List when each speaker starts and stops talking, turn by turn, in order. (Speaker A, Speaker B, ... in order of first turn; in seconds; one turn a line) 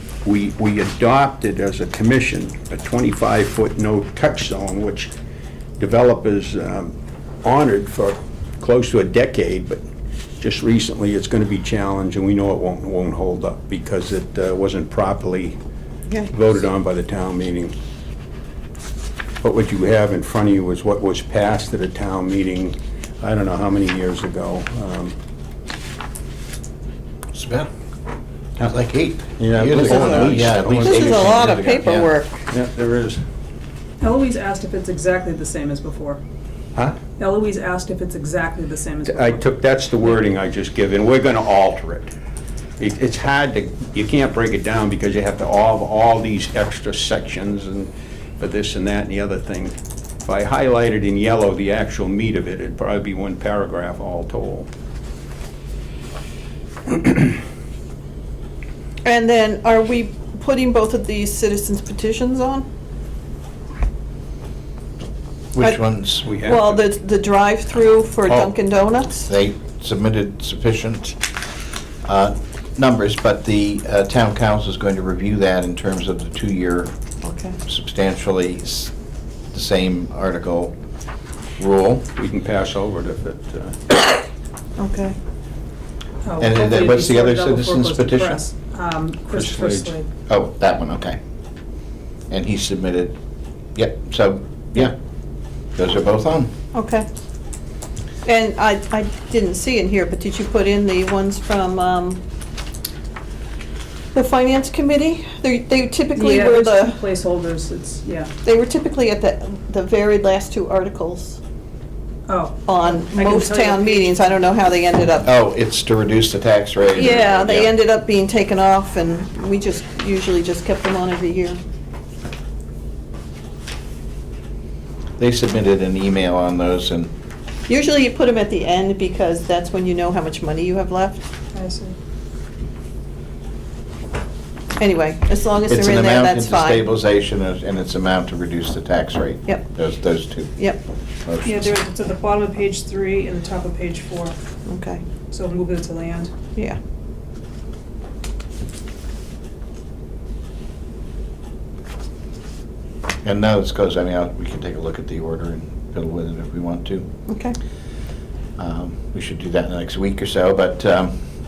Speaker A: 0.2-5.1
Speaker A: 5.8-9.8
Speaker A: 10.4-15.6
Speaker A: 16.3-17.7
Speaker A: 19.4-25.2
Speaker B: 27.3-27.7
Speaker B: 28.6-32.1
Speaker A: 29.4-31.6
Speaker C: 29.9-32.4
Speaker A: 32.5-33.2
Speaker D: 34.0-36.2
Speaker D: 37.2-39.4
Speaker A: 39.0-42.1
Speaker A: 42.8-54.7
Speaker C: 59.0-62.6
Speaker B: 65.5-66.3
Speaker A: 66.2-66.8
Speaker C: 66.4-69.3
Speaker B: 69.3-71.2
Speaker B: 72.0-76.9
Speaker C: 77.2-77.6
Speaker B: 77.7-78.9
Speaker B: 79.5-80.8
Speaker B: 81.6-82.1
Speaker A: 82.1-84.0
Speaker C: 84.8-85.2
Speaker D: 86.2-90.1
Speaker B: 86.4-88.4
Speaker A: 89.3-89.9
Speaker B: 90.3-91.2
Speaker B: 92.3-93.2
Speaker B: 93.7-94.9
Speaker B: 95.7-96.5
Speaker C: 96.7-97.1
Speaker C: 98.2-102.2
Speaker C: 104.1-107.0
Speaker D: 106.1-108.3
Speaker C: 108.4-111.4
Speaker D: 112.3-114.3
Speaker C: 112.7-115.3
Speaker B: 115.2-117.7
Speaker C: 116.9-121.6
Speaker B: 125.2-127.1
Speaker C: 127.7-131.2
Speaker D: 131.5-131.9
Speaker C: 134.8-136.8
Speaker B: 135.7-140.6
Speaker B: 141.2-141.7
Speaker D: 141.4-144.3
Speaker C: 144.7-145.0
Speaker D: 145.3-146.3
Speaker B: 153.2-157.1
Speaker C: 157.3-157.6
Speaker B: 158.6-161.2